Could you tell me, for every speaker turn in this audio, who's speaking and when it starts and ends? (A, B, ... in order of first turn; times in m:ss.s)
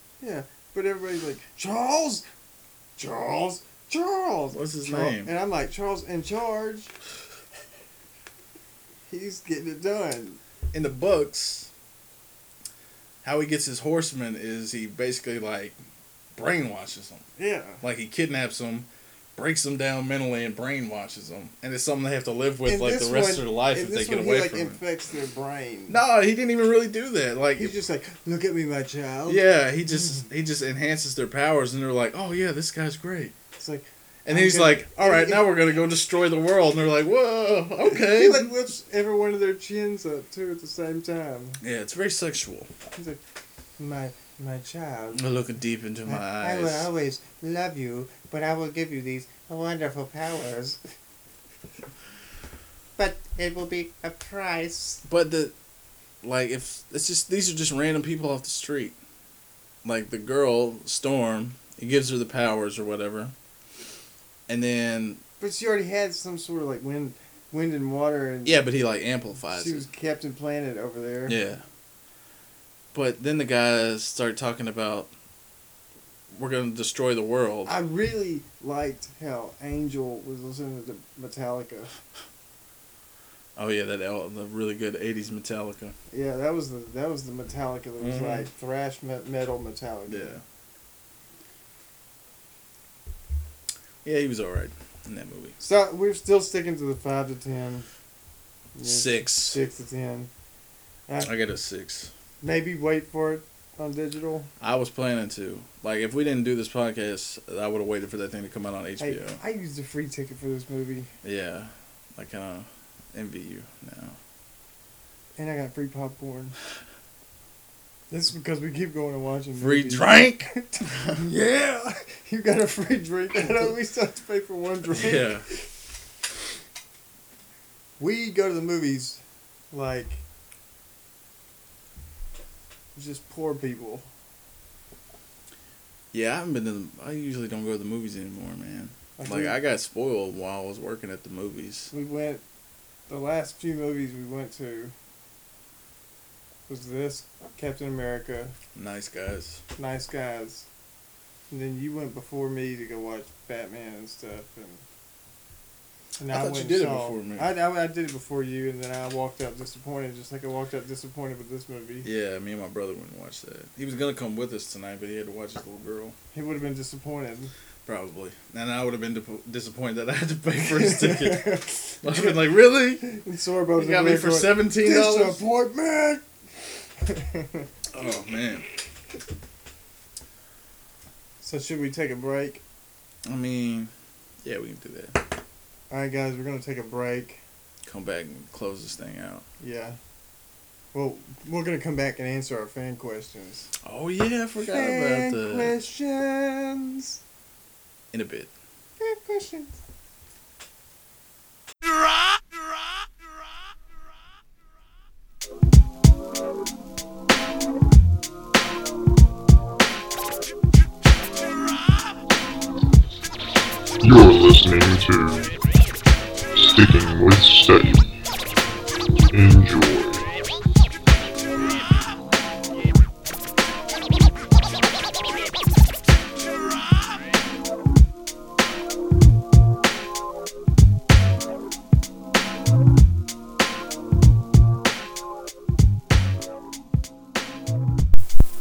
0:00.2-0:02.2 A
0:03.0-0:06.9 A
0:04.5-0:05.3 B
0:09.1-0:10.4 A
0:10.7-0:11.7 B
0:13.2-0:15.8 B
0:16.3-0:17.2 B
0:17.4-0:17.8 A
0:17.8-0:24.8 B
0:22.6-0:26.0 A
0:25.9-0:27.7 B
0:27.6-0:29.4 A
0:29.3-0:33.3 B
0:33.6-0:35.5 A
0:34.2-0:38.5 B
0:37.8-0:41.6 A
0:41.6-0:42.7 B
0:42.9-0:43.2 A
0:43.8-0:45.2 A
0:45.1-0:46.9 B
0:46.1-0:50.8 A
0:53.0-0:55.0 A
0:55.0-0:55.5 B
0:56.2-0:59.0 B
0:59.8-1:03.3 B
1:04.5-1:05.2 B
1:05.4-1:08.6 A
1:08.4-1:09.9 B
1:09.5-1:11.4 A
1:11.3-1:11.6 B
1:12.9-1:15.1 B
1:16.3-1:17.7 B
1:17.6-1:21.9 A
1:23.6-1:26.0 B
1:26.1-1:30.4 A
1:28.0-1:28.5 B
1:30.1-1:30.4 B
1:34.0-1:35.6 B
1:35.6-1:37.9 A
1:38.8-1:40.3 A
1:38.8-1:39.6 B
1:41.2-1:42.1 B
1:42.4-1:44.5 A
1:44.6-1:49.4 B
1:49.0-1:51.1 A
1:51.2-1:54.2 B
1:55.4-1:56.6 A
1:58.1-2:05.5 A
1:59.6-2:01.2 B
2:04.9-2:05.4 B
2:08.0-2:10.2 A
2:13.0-2:14.1 A
2:16.1-2:21.9 B
2:19.2-2:19.6 A
2:21.9-2:22.4 A
2:23.1-2:24.9 A
2:26.7-2:28.6 A
2:28.8-2:29.6 B
2:29.8-2:30.7 A
2:31.5-2:34.8 A
2:36.2-2:42.1 A
2:36.3-2:37.5 B
2:42.0-2:46.2 B
2:46.3-2:47.5 A
2:47.8-2:53.1 B
2:50.7-2:52.4 A
2:53.0-2:56.2 A
2:53.8-2:55.4 B
2:57.0-2:57.7 A
2:57.9-2:58.7 B
3:01.4-3:02.6 A
3:03.2-3:03.9 B
3:04.4-3:05.2 B
3:05.9-3:07.4 A
3:07.8-3:09.4 B
3:09.6-3:10.0 A
3:10.9-3:13.7 A
3:13.8-3:15.8 B
3:14.7-3:17.2 A
3:18.1-3:18.5 B
3:19.0-3:19.8 A
3:34.0-3:35.5 C
3:36.7-3:38.1 C
3:39.3-3:40.3 C